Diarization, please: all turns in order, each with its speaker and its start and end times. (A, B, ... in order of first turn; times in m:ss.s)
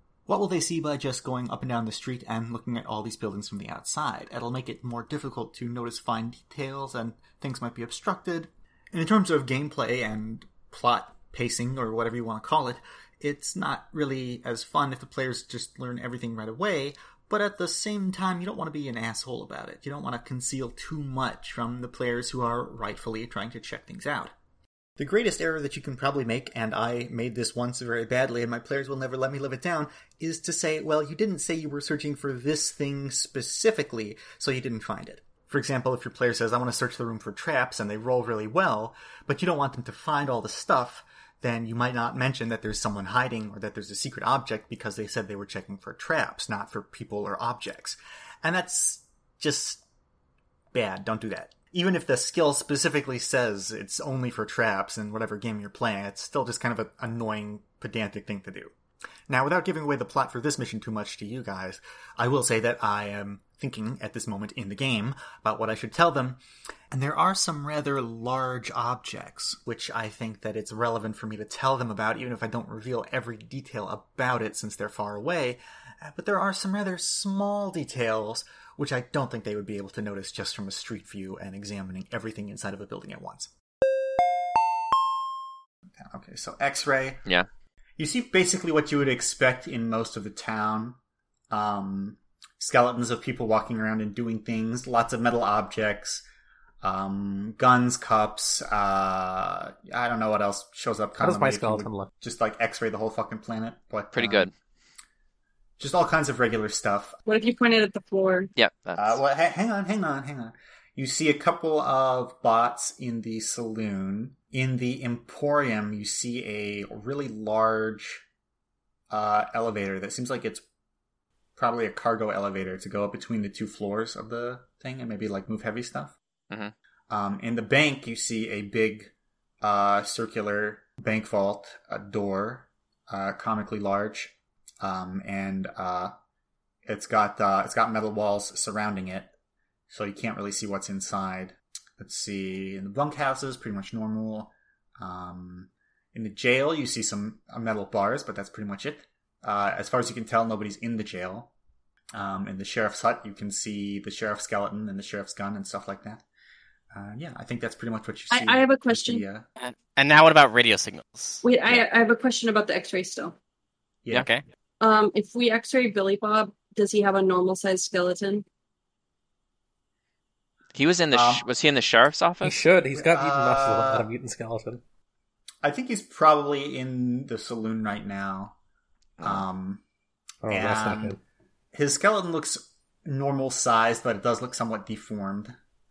0:00.3-0:24.3 A
0:25.0-0:49.8 A
0:50.7-0:58.7 A
0:59.3-1:23.5 A
1:26.0-1:27.2 A
1:28.0-1:31.0 A
1:31.5-1:36.2 A
1:36.8-1:44.5 A
1:41.2-1:42.1 B
1:44.1-1:44.5 C
1:45.8-1:47.2 A
1:47.3-1:48.5 D
1:48.6-1:49.2 C
1:49.0-1:58.2 A
1:59.1-2:00.6 A
2:01.6-2:06.1 A
2:07.1-2:16.1 A
2:16.8-2:19.3 A
2:19.9-2:31.5 A
2:32.1-2:36.2 A
2:36.9-2:39.4 A
2:38.3-2:39.2 D
2:39.6-2:41.4 E
2:41.4-2:43.3 D
2:44.1-2:44.4 E
2:44.8-2:48.4 D
2:50.7-2:52.6 C
2:51.1-2:51.4 A
2:52.4-2:54.8 B
2:52.9-2:54.1 A
2:55.6-2:58.5 A
2:59.2-2:59.4 C
2:59.2-2:59.8 A
3:00.4-3:01.2 B
3:00.5-3:01.2 A
3:01.7-3:05.5 A